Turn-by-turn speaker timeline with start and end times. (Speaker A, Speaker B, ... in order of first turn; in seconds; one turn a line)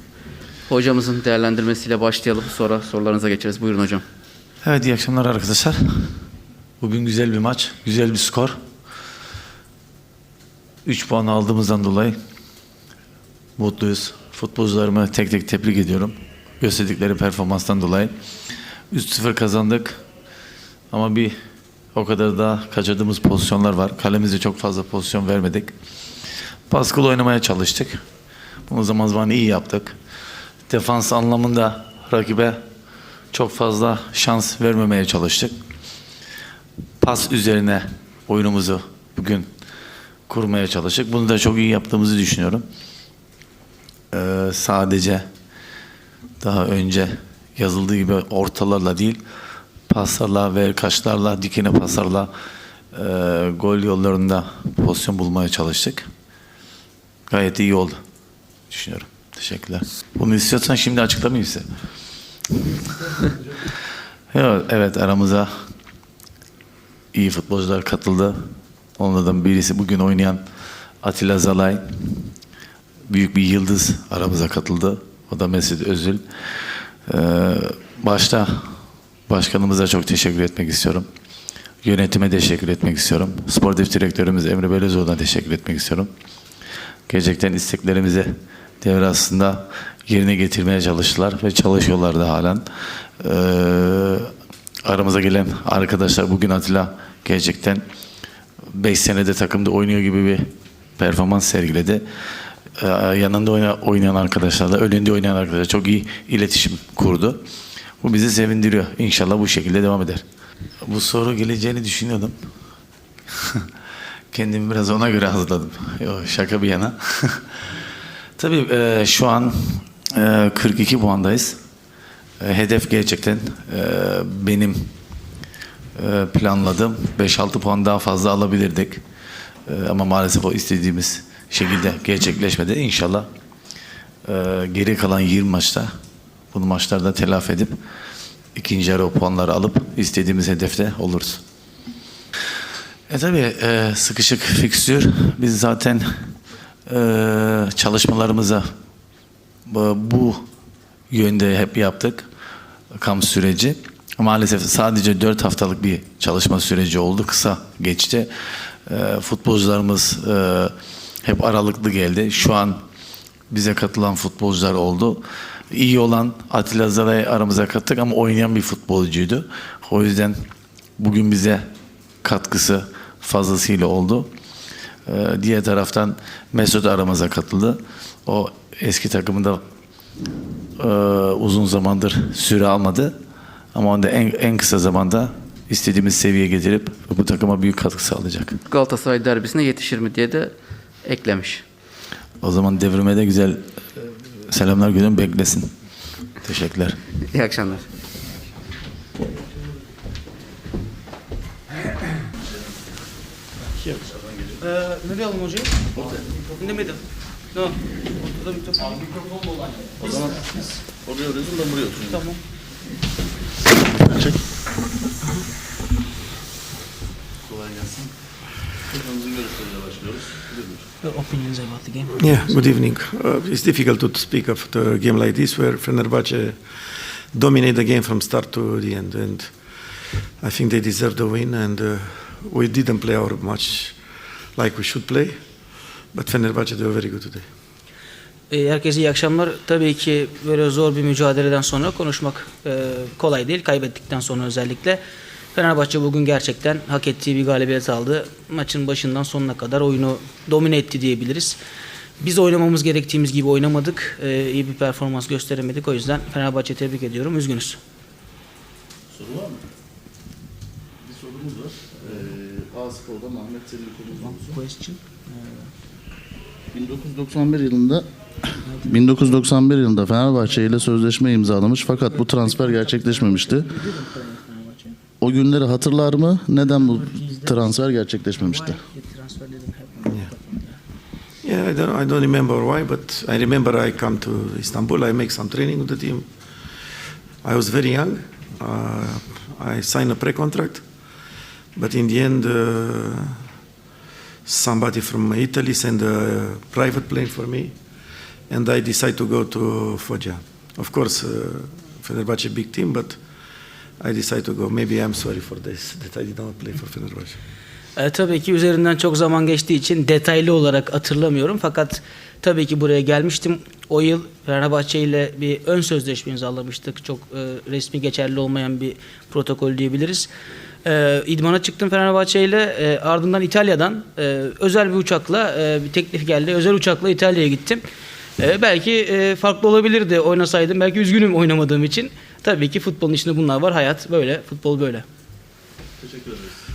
Speaker A: 0.7-4.0
Speaker B: 4.6-6.2
Speaker B: 6.8-8.6
Speaker B: 10.8-12.2
Speaker B: 13.6-18.1
Speaker B: 18.9-20.0
Speaker B: 20.9-21.3
Speaker B: 21.9-25.7
Speaker B: 26.7-28.0
Speaker B: 28.7-29.9
Speaker B: 30.7-32.6
Speaker B: 33.3-35.5
Speaker B: 37.0-39.5
Speaker B: 40.3-42.6
Speaker B: 44.1-45.2
Speaker B: 46.4-49.2
Speaker B: 49.9-52.3
Speaker B: 52.9-56.0
Speaker B: 57.3-58.0
Speaker B: 58.7-61.6
Speaker B: 64.3-65.5
Speaker B: 67.1-68.4
Speaker B: 69.0-70.4
Speaker B: 71.0-72.2
Speaker B: 73.1-78.7
Speaker B: 79.3-81.1
Speaker B: 81.8-86.1
Speaker B: 87.1-92.7
Speaker B: 93.2-94.3
Speaker B: 94.8-97.8
Speaker B: 98.7-100.5
Speaker B: 101.0-102.0
Speaker B: 102.8-107.4
Speaker B: 108.0-110.2
Speaker B: 110.8-112.4
Speaker B: 113.3-113.7
Speaker B: 114.3-117.7
Speaker B: 118.4-121.6
Speaker B: 122.4-124.8
Speaker B: 126.0-129.0
Speaker B: 129.7-133.3
Speaker B: 134.2-135.9
Speaker B: 136.5-137.8
Speaker B: 138.6-141.4
Speaker B: 143.1-146.1
Speaker B: 146.9-148.7
Speaker B: 149.7-150.4
Speaker B: 151.1-152.2
Speaker B: 152.9-158.3
Speaker B: 158.9-160.7
Speaker B: 161.2-162.8
Speaker B: 163.5-170.4
Speaker B: 171.0-171.6
Speaker B: 172.2-174.3
Speaker B: 175.1-179.6
Speaker B: 180.8-183.1
Speaker B: 183.7-188.6
Speaker A: 188.7-190.5
Speaker A: 191.1-191.6
Speaker B: 192.4-195.7
Speaker B: 196.4-197.1
Speaker A: 197.3-197.9
Speaker C: 203.7-204.1
Speaker D: 204.6-205.8
Speaker D: 206.5-210.7
Speaker E: 210.0-212.2
Speaker D: 212.1-212.4
Speaker E: 213.9-214.4
Speaker E: 217.5-218.1
Speaker E: 218.9-220.8
Speaker D: 221.0-222.6
Speaker C: 222.2-226.6
Speaker C: 227.3-229.5
Speaker C: 230.4-234.0
Speaker C: 234.6-235.3
Speaker C: 236.1-237.4
Speaker D: 238.5-245.0
Speaker D: 245.5-251.6
Speaker D: 252.2-257.8
Speaker E: 259.1-259.6
Speaker E: 261.0-264.6
Speaker D: 264.1-265.7
Speaker E: 266.7-268.1
Speaker D: 268.6-269.4
Speaker E: 268.8-273.7
Speaker D: 272.0-275.0
Speaker E: 275.2-278.8
Speaker D: 276.7-277.7
Speaker D: 278.4-280.8
Speaker C: 281.4-286.3
Speaker C: 287.4-290.8
Speaker C: 291.8-293.4
Speaker C: 294.5-297.7
Speaker C: 298.5-303.2
Speaker C: 304.0-307.4
Speaker D: 308.0-320.3
Speaker D: 320.9-327.8
Speaker D: 328.4-335.1
Speaker E: 336.0-336.5